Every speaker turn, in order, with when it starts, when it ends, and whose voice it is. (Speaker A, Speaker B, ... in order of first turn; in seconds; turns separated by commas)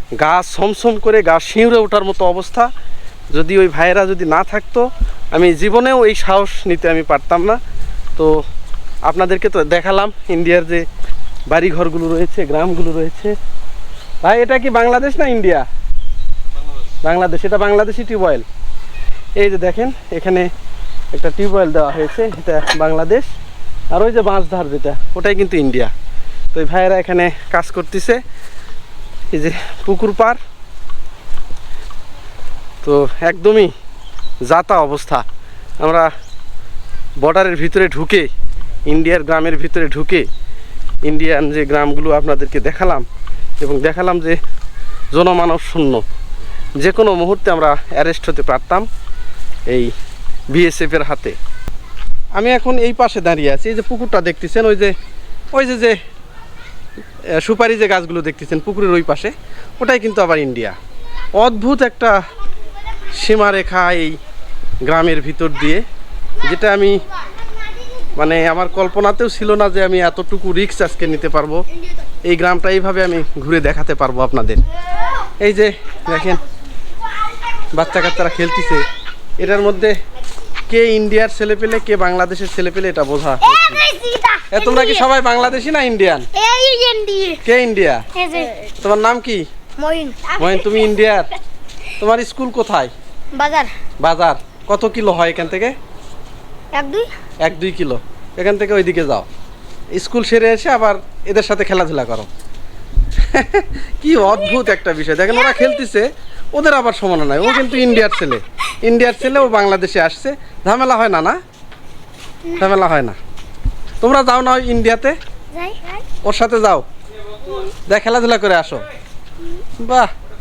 Speaker A: 0.2-2.7, Speaker A: 3.3-7.6, Speaker A: 9.0-10.8, Speaker A: 11.5-13.3, Speaker A: 14.2-15.6, Speaker A: 17.0-18.4, Speaker A: 19.4-20.5, Speaker A: 21.1-23.3, Speaker A: 23.9-25.9, Speaker A: 26.5-28.2, Speaker A: 29.3-30.4, Speaker A: 32.8-33.7, Speaker A: 34.5-35.2, Speaker A: 35.8-36.1, Speaker A: 37.2-38.3, Speaker A: 38.9-40.3, Speaker A: 41.0-43.0, Speaker A: 43.6-44.4, Speaker A: 45.1-46.0, Speaker A: 46.8-48.8, Speaker A: 50.5-51.4, Speaker A: 52.4-54.9, Speaker A: 55.5-56.0, Speaker A: 57.4-60.7, Speaker A: 61.4-62.1, Speaker A: 63.2-64.1, Speaker A: 64.8-65.8, Speaker A: 66.4-67.0, Speaker A: 68.1-71.6, Speaker A: 72.3-74.6, Speaker A: 75.4-76.4, Speaker A: 77.7-78.9, Speaker A: 79.4-80.0, Speaker A: 80.7-83.8, Speaker B: 83.4-85.0, Speaker A: 84.5-86.3, Speaker B: 86.3-87.4, Speaker A: 87.4-88.0, Speaker B: 88.1-88.7, Speaker A: 88.8-89.4, Speaker B: 89.8-91.0, Speaker A: 90.4-91.3, Speaker A: 92.0-92.9, Speaker B: 93.3-93.7, Speaker A: 94.0-95.7, Speaker B: 96.7-97.1, Speaker A: 97.4-99.3, Speaker A: 99.9-102.3, Speaker A: 103.2-111.4, Speaker B: 104.2-104.7, Speaker B: 105.3-105.8, Speaker B: 112.5-112.7, Speaker A: 112.5-113.2, Speaker A: 114.0-115.2, Speaker B: 115.5-116.0, Speaker A: 116.2-116.8, Speaker A: 117.8-118.8, Speaker A: 119.8-120.1